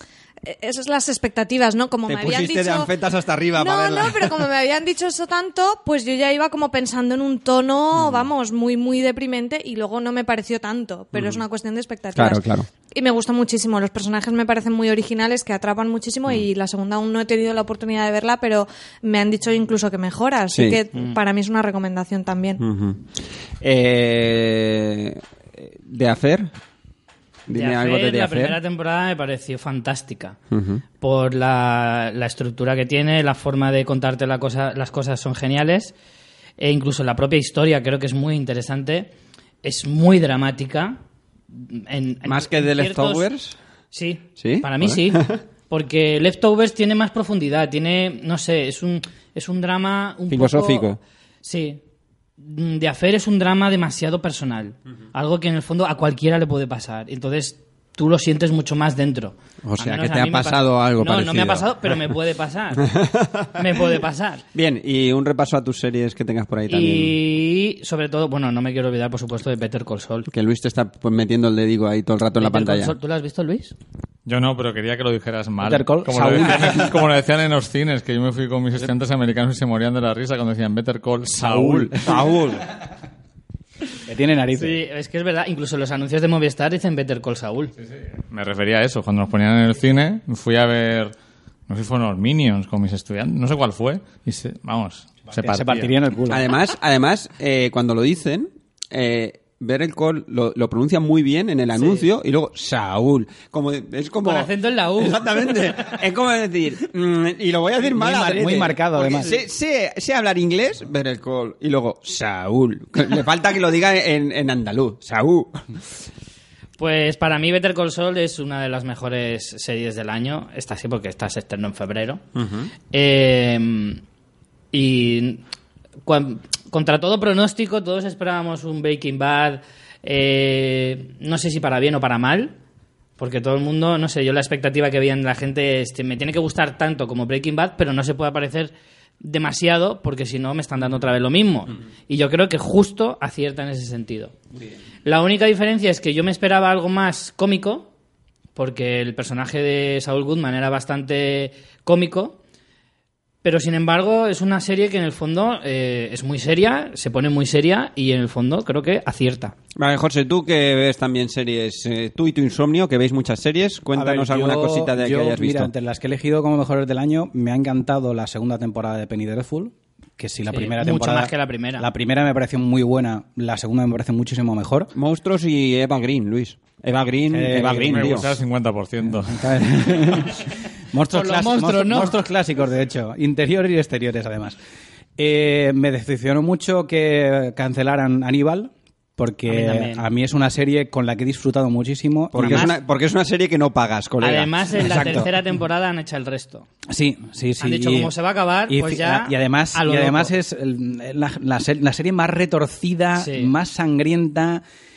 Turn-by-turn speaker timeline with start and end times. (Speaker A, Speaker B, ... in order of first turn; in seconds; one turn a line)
Speaker A: 0.4-2.9
Speaker B: 2.1-4.3
Speaker A: 3.6-22.6
Speaker B: 8.0-8.3
Speaker B: 11.2-11.4
Speaker B: 12.2-12.7
Speaker B: 20.5-20.8
Speaker B: 22.6-23.1
Speaker B: 23.6-25.2
Speaker B: 25.8-26.5
Speaker B: 27.5-28.6
Speaker C: 27.5-30.4
Speaker B: 30.5-30.8
Speaker C: 31.0-36.0
Speaker C: 36.6-39.1
Speaker C: 39.6-41.0
Speaker C: 41.5-43.3
Speaker B: 42.2-43.6
Speaker C: 43.9-50.9
Speaker B: 44.4-45.4
Speaker B: 50.3-51.0
Speaker C: 51.4-51.8
Speaker C: 52.4-63.0
Speaker B: 59.6-62.0
Speaker B: 62.8-63.5
Speaker C: 63.5-64.5
Speaker B: 64.5-67.2
Speaker C: 66.7-70.3
Speaker B: 70.3-73.0
Speaker C: 72.4-73.8
Speaker D: 74.3-82.1
Speaker E: 75.6-77.0
Speaker B: 81.4-82.7
Speaker E: 81.8-82.5
Speaker E: 84.1-84.8
Speaker C: 84.6-87.7
Speaker D: 88.3-91.1
Speaker D: 91.7-95.9
Speaker E: 95.3-96.4
Speaker B: 96.3-115.6
Speaker C: 101.8-102.0
Speaker C: 104.2-105.9
Speaker E: 107.8-109.4
Speaker C: 116.8-122.2
Speaker B: 122.4-122.7
Speaker C: 122.9-124.0
Speaker C: 124.7-125.4
Speaker C: 126.0-132.6
Speaker C: 133.2-144.3
Speaker C: 145.1-147.9
Speaker C: 148.6-152.4
Speaker C: 153.4-159.6
Speaker B: 159.8-165.7
Speaker E: 163.9-174.9
Speaker C: 170.5-171.9
Speaker B: 174.9-178.3
Speaker E: 177.3-178.3
Speaker D: 177.9-179.6
Speaker E: 179.0-184.6
Speaker C: 181.1-182.2
Speaker E: 185.2-192.7
Speaker C: 189.5-190.1
Speaker B: 192.3-195.2
Speaker C: 192.4-192.8
Speaker C: 194.2-196.7
Speaker E: 194.8-195.3
Speaker E: 196.9-198.1
Speaker C: 197.6-200.3
Speaker E: 198.7-204.6
Speaker C: 203.2-203.5